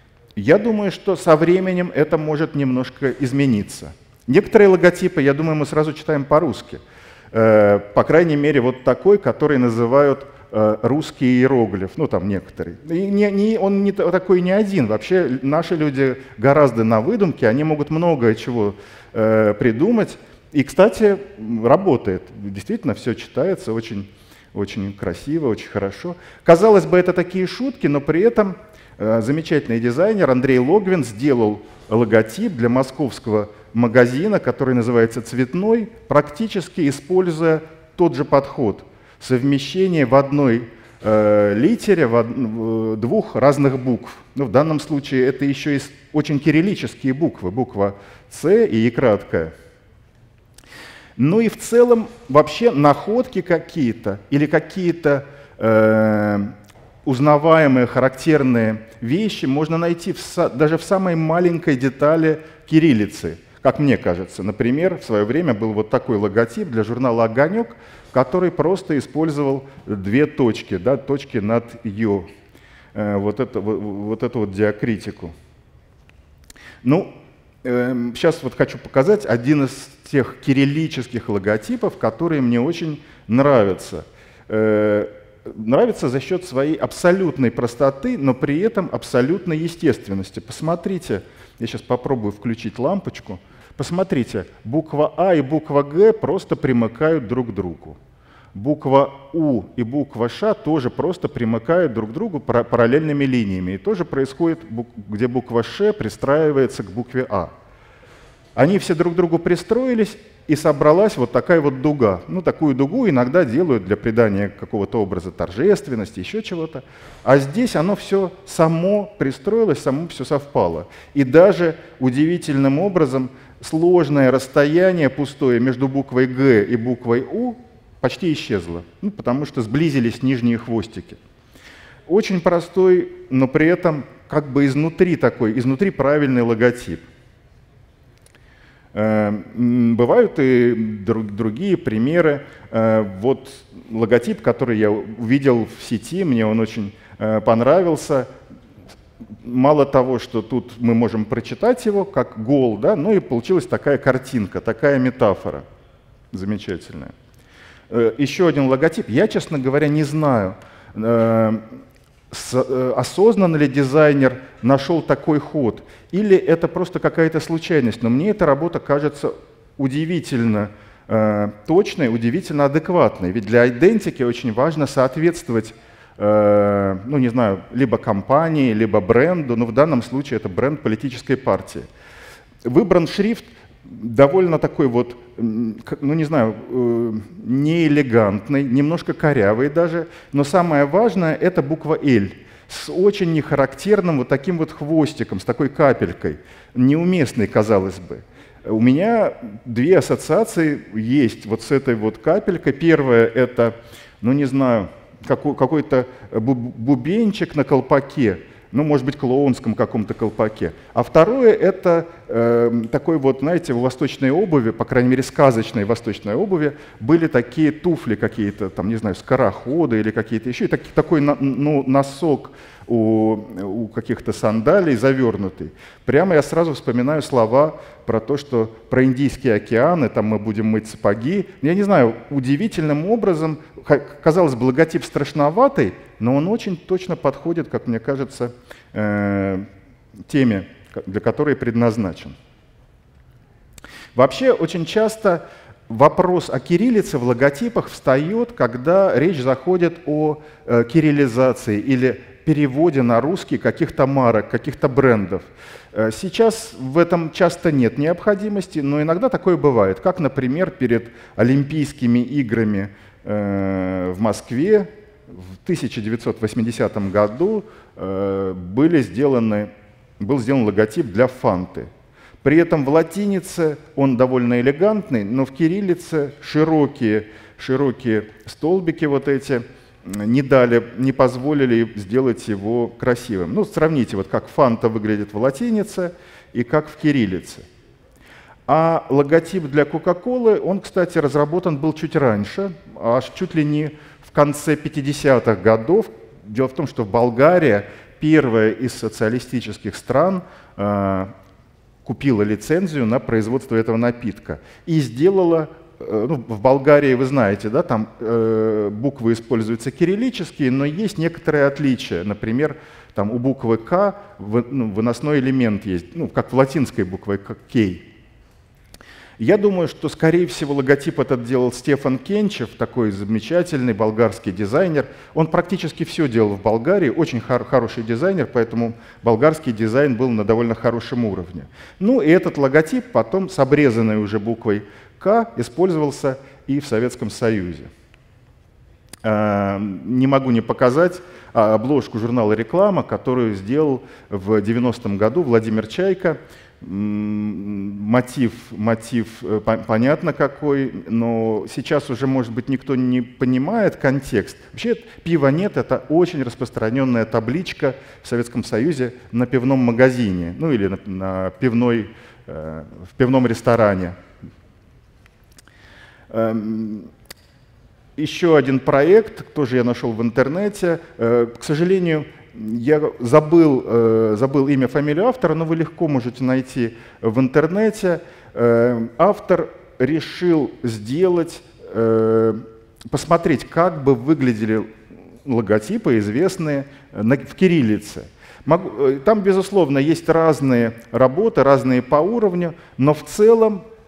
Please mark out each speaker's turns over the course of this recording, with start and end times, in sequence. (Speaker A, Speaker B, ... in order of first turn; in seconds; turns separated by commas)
Speaker A: 0.3-49.5, Speaker A: 51.1-72.3, Speaker A: 72.9-75.3, Speaker A: 76.8-98.0, Speaker A: 98.5-107.5, Speaker A: 108.5-131.2, Speaker A: 132.1-137.0, Speaker A: 138.9-148.3, Speaker A: 149.4-155.6, Speaker A: 156.3-157.1, Speaker A: 157.9-161.8, Speaker A: 162.3-181.9, Speaker A: 182.6-239.7, Speaker A: 240.3-242.3, Speaker A: 244.1-271.9, Speaker A: 272.4-287.6, Speaker A: 288.7-301.3, Speaker A: 302.0-318.1, Speaker A: 319.4-337.9, Speaker A: 339.2-364.2, Speaker A: 366.3-367.1, Speaker A: 368.2-384.9, Speaker A: 385.4-393.9